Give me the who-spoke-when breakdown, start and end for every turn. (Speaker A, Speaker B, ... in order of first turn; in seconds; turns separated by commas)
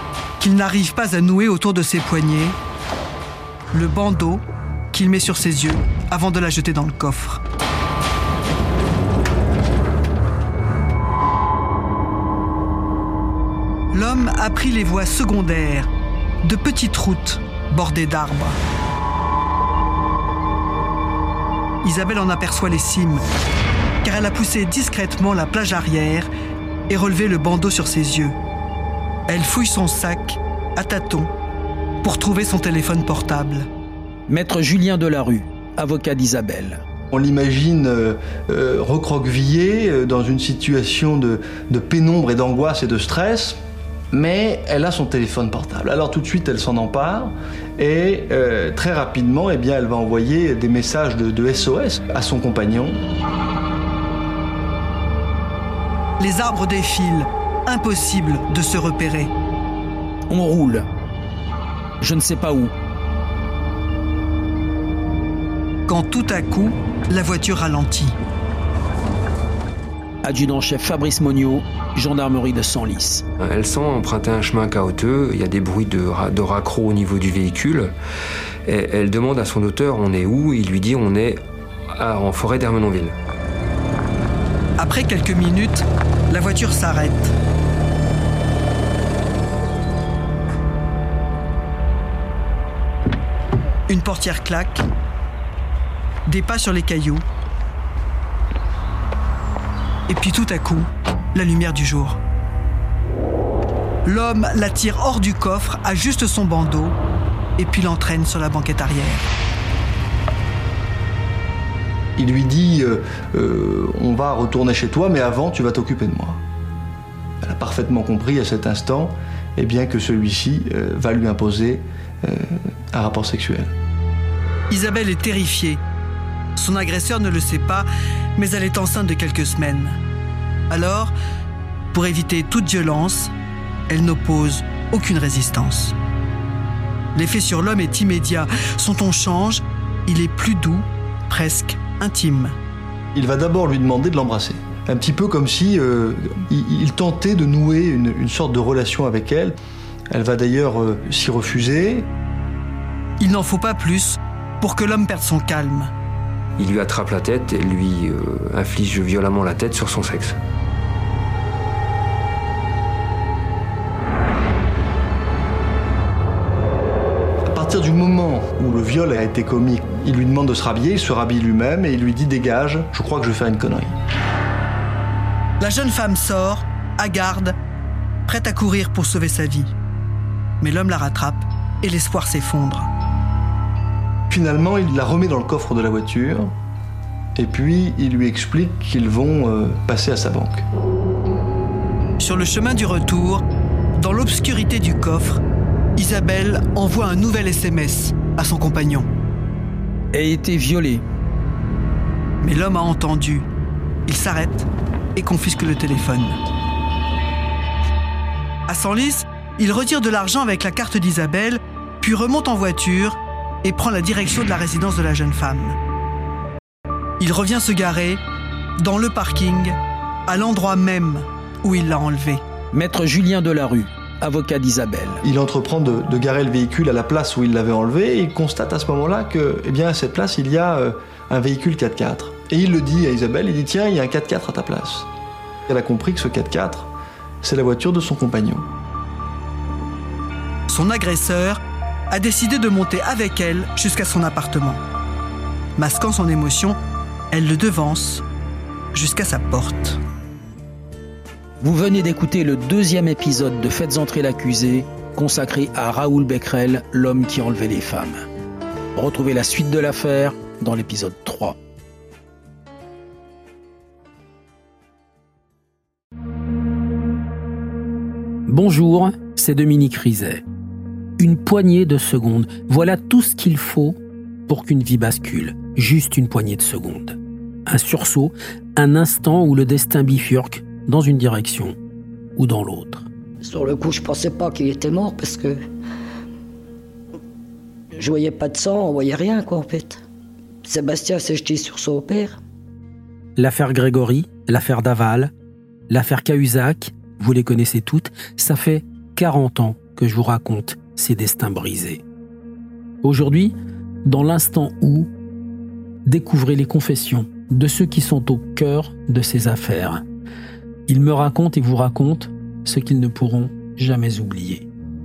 Speaker A: 0.4-2.6, Speaker A: 3.7-7.4, Speaker A: 13.9-15.9, Speaker A: 16.4-18.6, Speaker A: 21.8-23.2, Speaker A: 24.0-26.3, Speaker A: 26.9-28.4, Speaker A: 29.3-31.3, Speaker A: 32.0-33.7, Speaker B: 34.3-36.8, Speaker C: 37.1-43.6, Speaker C: 44.1-53.0, Speaker A: 56.2-59.3, Speaker B: 60.3-60.9, Speaker B: 62.0-62.7, Speaker A: 65.9-68.2, Speaker B: 70.2-73.2, Speaker D: 73.4-77.9, Speaker D: 78.7-81.4, Speaker D: 82.0-83.2, Speaker A: 84.8-87.3, Speaker A: 93.9-94.8, Speaker A: 96.3-97.2, Speaker A: 100.1-102.2, Speaker A: 104.0-107.0, Speaker A: 107.6-109.2, Speaker C: 112.2-116.4, Speaker C: 117.4-123.7, Speaker A: 124.7-125.8, Speaker A: 126.5-130.0, Speaker A: 130.7-131.1, Speaker A: 131.9-133.3, Speaker A: 133.9-135.9, Speaker A: 137.1-142.5, Speaker C: 143.1-149.6, Speaker C: 150.1-152.1, Speaker A: 153.2-155.9, Speaker D: 156.6-160.4, Speaker C: 167.5-173.9, Speaker A: 175.6-177.5, Speaker A: 178.3-179.7, Speaker A: 180.6-182.9, Speaker C: 184.3-186.5, Speaker C: 187.3-190.6, Speaker A: 192.2-193.4, Speaker A: 193.9-195.4, Speaker A: 196.0-199.1, Speaker B: 200.1-201.0, Speaker A: 202.4-203.5, Speaker A: 204.1-206.4, Speaker A: 208.7-215.8, Speaker A: 217.2-218.2, Speaker A: 218.8-219.8, Speaker A: 220.3-222.4, Speaker B: 222.7-225.2, Speaker C: 225.2-235.1, Speaker C: 235.7-236.9, Speaker C: 237.4-238.7, Speaker A: 240.7-241.6, Speaker A: 242.1-244.8, Speaker A: 245.8-246.8, Speaker A: 247.3-248.2, Speaker A: 248.9-250.0, Speaker B: 251.6-258.2, Speaker B: 258.9-261.6, Speaker B: 268.5-270.4, Speaker B: 271.2-281.8, Speaker B: 282.4-283.1, Speaker E: 283.4-285.6, Speaker E: 287.9-290.0, Speaker E: 290.6-292.4, Speaker B: 293.4-295.3, Speaker B: 295.9-302.0, Speaker B: 303.0-305.1, Speaker B: 306.1-310.0, Speaker B: 310.9-314.7